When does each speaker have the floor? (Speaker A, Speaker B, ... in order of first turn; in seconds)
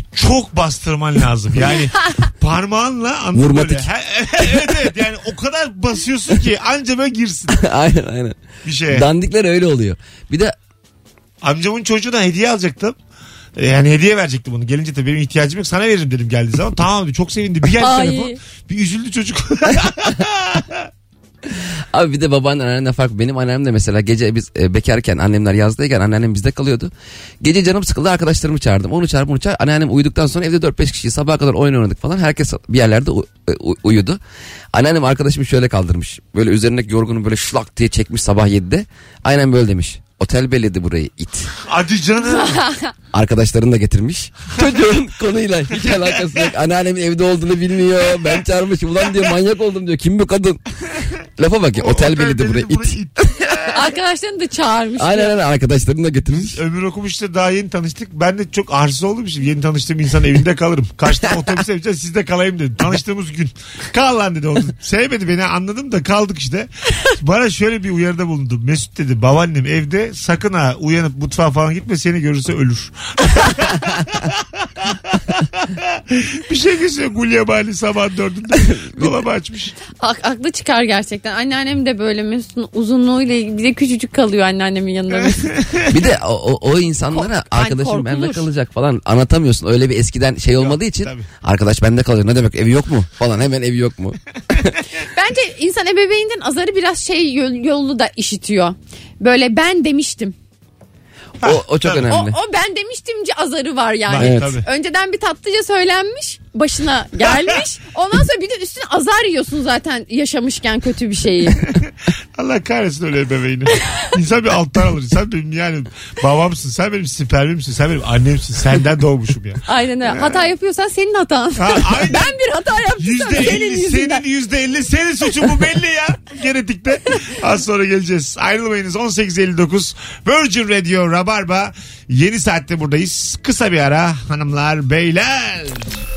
Speaker A: 0.1-7.6, 8.7-9.1, 11.4-13.0, 13.6-20.9, 41.6-42.6, 51.8-53.9, 56.3-79.8, 85.5-86.0, 90.6-91.3, 101.4-102.0, 104.1-104.7, 112.4-120.5, 121.6-122.3, 123.0-136.0
Speaker B: 3.3-3.9, 7.5-8.4, 8.9-10.6, 19.8-20.2, 21.5-34.2, 34.7-41.5, 43.1-50.6, 51.4-53.6, 55.0-56.6, 78.6-79.2, 85.9-94.7, 101.4-102.4, 104.2-104.6
Speaker C: 17.8-18.4, 42.3-42.9, 53.7-55.3, 80.0-85.6, 87.1-88.5, 95.1-100.3, 102.1-111.7, 119.7-124.2